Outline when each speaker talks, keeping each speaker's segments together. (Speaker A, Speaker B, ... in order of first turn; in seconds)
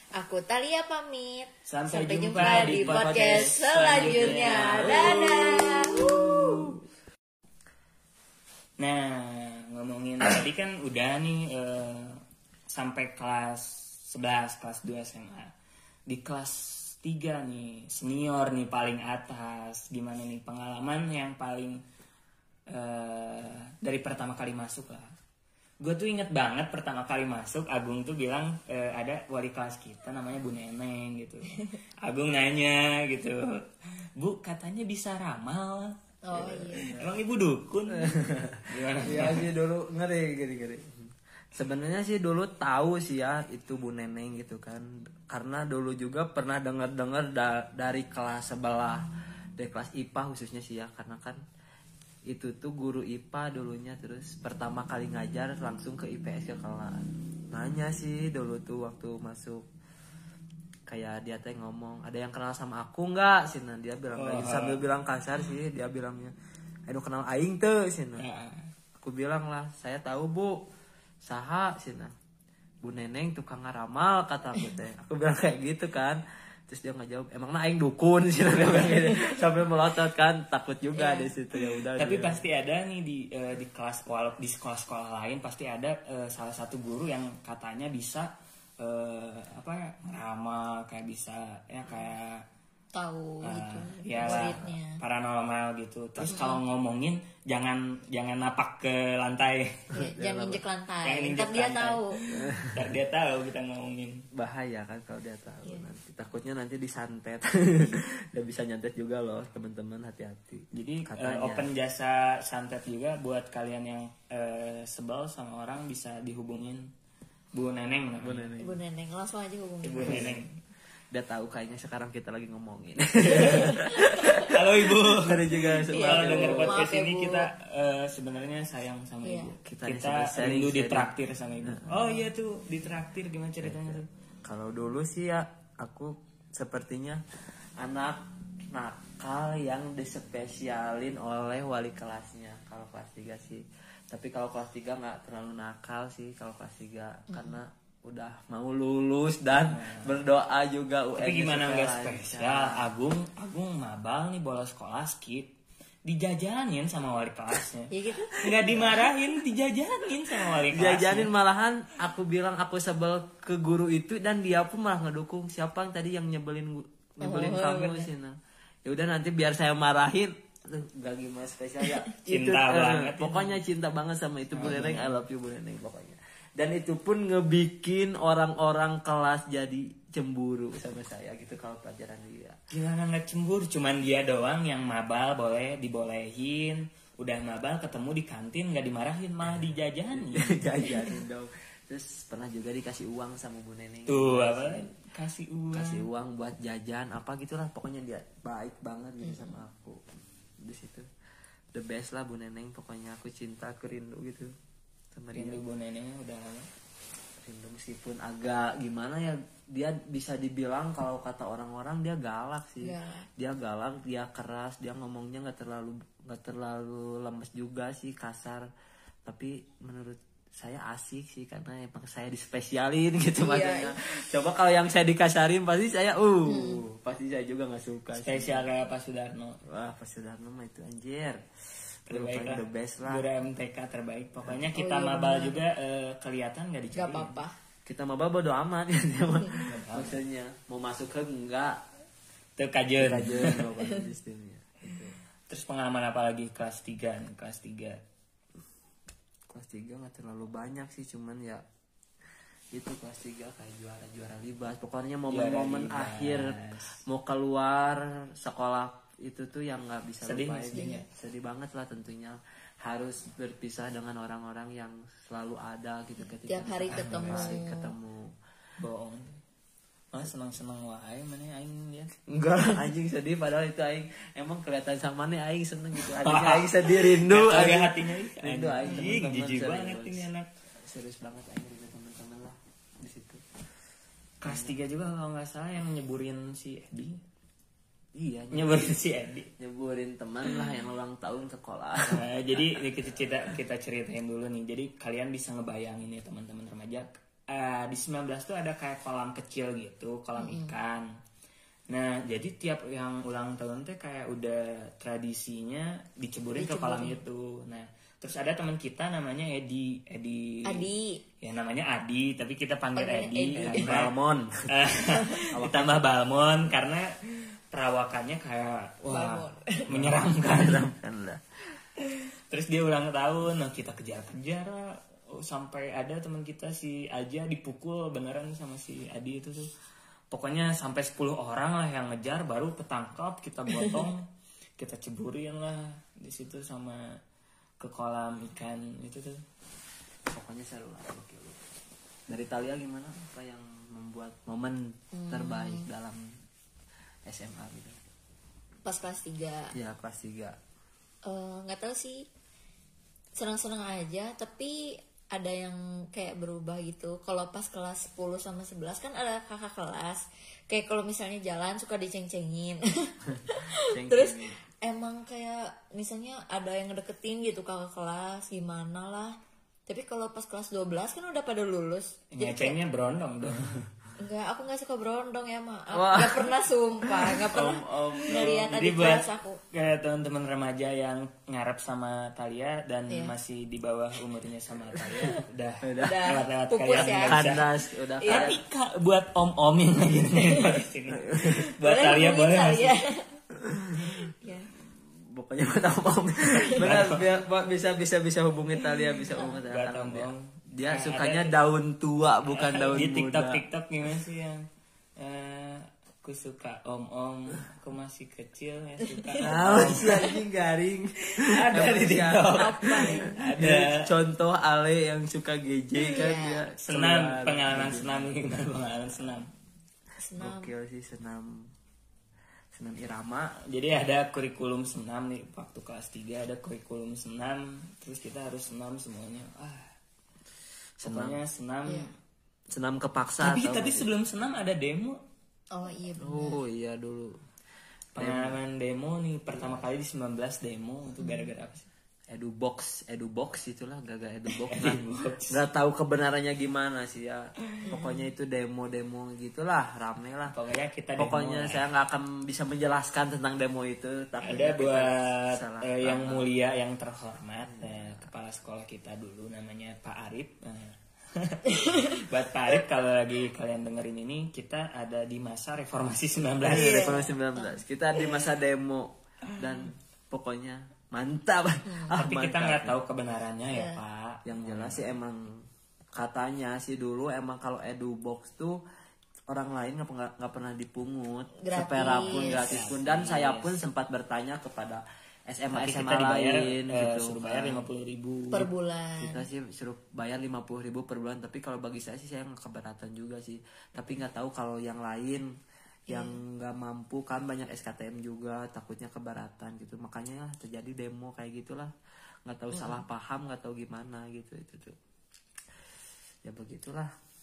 Speaker A: 0.2-6.3, 36.2-36.9, 80.9-81.3, 92.9-95.0, 96.2-96.6, 99.9-102.2, 118.6-120.4, 123.3-124.4, 125.9-127.5, 129.2-129.5, 147.3-147.6, 157.9-158.4, 167.2-168.1, 199.2-199.6, 212.8-213.2, 223.4-223.9, 226.4-226.8, 234.7-235.6, 236.9-237.5, 260.7-261.0, 266.2-267.9, 300.4-300.8, 306.6-307.2, 310.6-311.2, 312.9-313.9, 319.1-319.9, 345.1-345.9, 348.8-349.7, 351.2-352.3, 353.4-369.3, 369.9-372.8, 374.2-379.6, 383.1-383.3, 386.0-387.6, 388.2-388.5, 391.8-393.3, 394.4-394.7, 396.5-396.8, 399.3-399.6, 409.0-409.4, 412.5-413.4, 416.1-416.6, 420.2-420.7, 431.9-432.1, 435.7-436.6, 441.2-441.5, 447.8-448.2, 454.4-454.7, 461.7-462.2, 466.7-467.8, 471.9-472.1, 473.7-474.0, 481.6-482.9, 488.5-489.4, 496.1-496.4
Speaker B: 1.6-6.7, 8.8-15.5, 16.1-21.8, 22.7-25.1, 25.8-33.5, 34.2-38.1, 38.7-39.5, 64.2-64.8, 68.2-68.7, 81.9-92.5, 93.4-104.2, 110.7-116.9, 117.5-118.5, 119.8-120.5, 123.3-123.7, 124.3-134.1, 149.7-150.2, 151.2-155.5, 156.1-161.3, 172.3-173.6, 174.5-175.2, 182.7-190.8, 194.1-196.1, 205.3-206.7, 228.1-229.6, 232.1-237.3, 239.6-240.2, 242.6-243.7, 245.5-248.0, 255.3-256.9, 260.2-261.0, 266.9-267.6, 268.8-269.4, 270.1-272.1, 276.1-280.5, 284.4-287.2, 288.5-289.5, 292.0-301.1, 301.9-310.9, 311.4-314.1, 314.7-317.1, 317.7-320.9, 322.1-329.7, 330.3-334.3, 334.8-337.2, 337.8-339.4, 372.3-373.9, 378.3-387.7, 388.3-393.0, 396.8-397.3, 399.6-401.6, 402.5-404.6, 405.2-410.4, 411.4-414.1, 416.8-419.5, 423.6-429.9, 431.0-432.1, 433.4-435.2, 438.1-441.9, 444.5-445.6, 450.5-451.9, 454.4-467.3, 472.1-475.1, 482.1-483.9, 485.7-488.7
Speaker C: 2.4-6.7, 36.5-37.0, 37.9-49.0, 49.6-51.4, 52.3-59.6, 60.9-66.3, 66.9-68.2, 69.0-70.6, 71.2-72.1, 72.8-82.4, 94.2-94.5, 102.3-102.9, 104.3-111.7, 118.2-118.8, 120.0-120.4, 121.1-126.8, 129.6-131.1, 131.6-132.2, 133.6-137.2, 137.8-152.8, 158.4-159.0, 160.4-182.6, 190.1-194.9, 195.7-200.0, 200.6-201.1, 201.7-204.5, 205.1-205.6, 207.4-218.7, 219.2-228.6, 229.7-231.4, 232.1-233.2, 237.8-241.8, 243.0-245.2, 249.5-251.6, 252.7-256.6, 257.1-268.3, 272.3-280.3, 280.8-283.4, 284.4-284.7, 288.1-288.9, 289.6-292.7, 313.6-314.7, 315.5-316.1, 319.9-321.4, 340.3-341.6, 342.3-346.2, 347.3-348.0, 349.7-350.6, 363.3-364.6, 375.9-379.2, 385.1-386.4, 386.9-388.6, 391.2-391.6, 393.6-394.2, 394.8-403.6, 409.4-418.3, 420.4-421.7, 422.7-423.6, 431.0-431.4, 432.7-434.1, 436.2-437.4, 438.2-438.6, 442.3-450.6, 451.2-456.5, 457.7-458.2, 466.6-472.9, 474.4-475.6, 476.2-478.8, 479.5-487.9, 489.2-495.5, 496.1-501.9, 502.4-504.9, 506.4-507.1